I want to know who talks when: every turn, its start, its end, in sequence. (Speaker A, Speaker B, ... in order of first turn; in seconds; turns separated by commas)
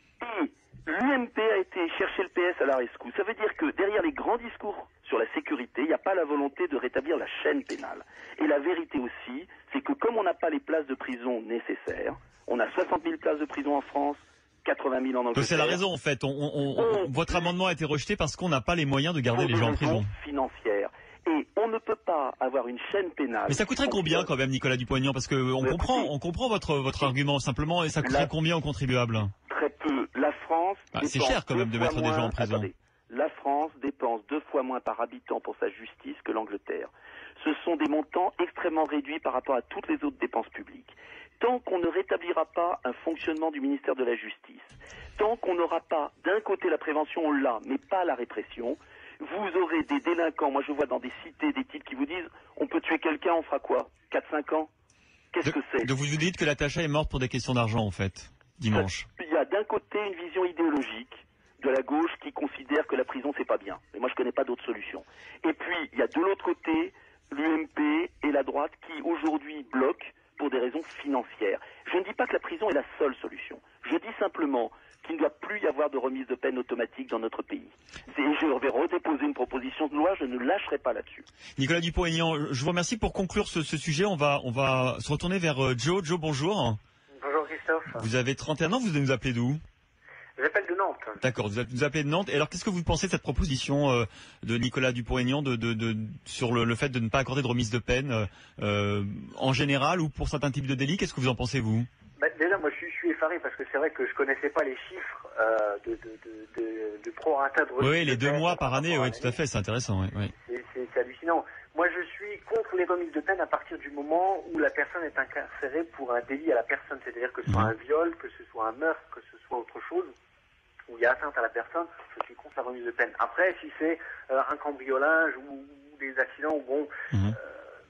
Speaker A: 0.2-15.8, Speaker B: 15.3-20.1, Speaker A: 16.7-17.5, Speaker A: 19.3-24.3, Speaker B: 23.5-29.3, Speaker A: 25.6-26.1, Speaker A: 28.0-28.3, Speaker A: 29.5-54.7, Speaker B: 30.9-32.7, Speaker A: 55.3-55.9, Speaker B: 55.4-59.0, Speaker A: 58.7-81.2, Speaker B: 81.6-86.8, Speaker C: 87.1-88.1, Speaker B: 87.9-89.6, Speaker C: 90.3-91.2, Speaker B: 91.2-101.9, Speaker C: 102.2-109.4, Speaker B: 107.8-110.3, Speaker C: 110.4-120.1, Speaker B: 117.5-117.7, Speaker C: 120.9-127.5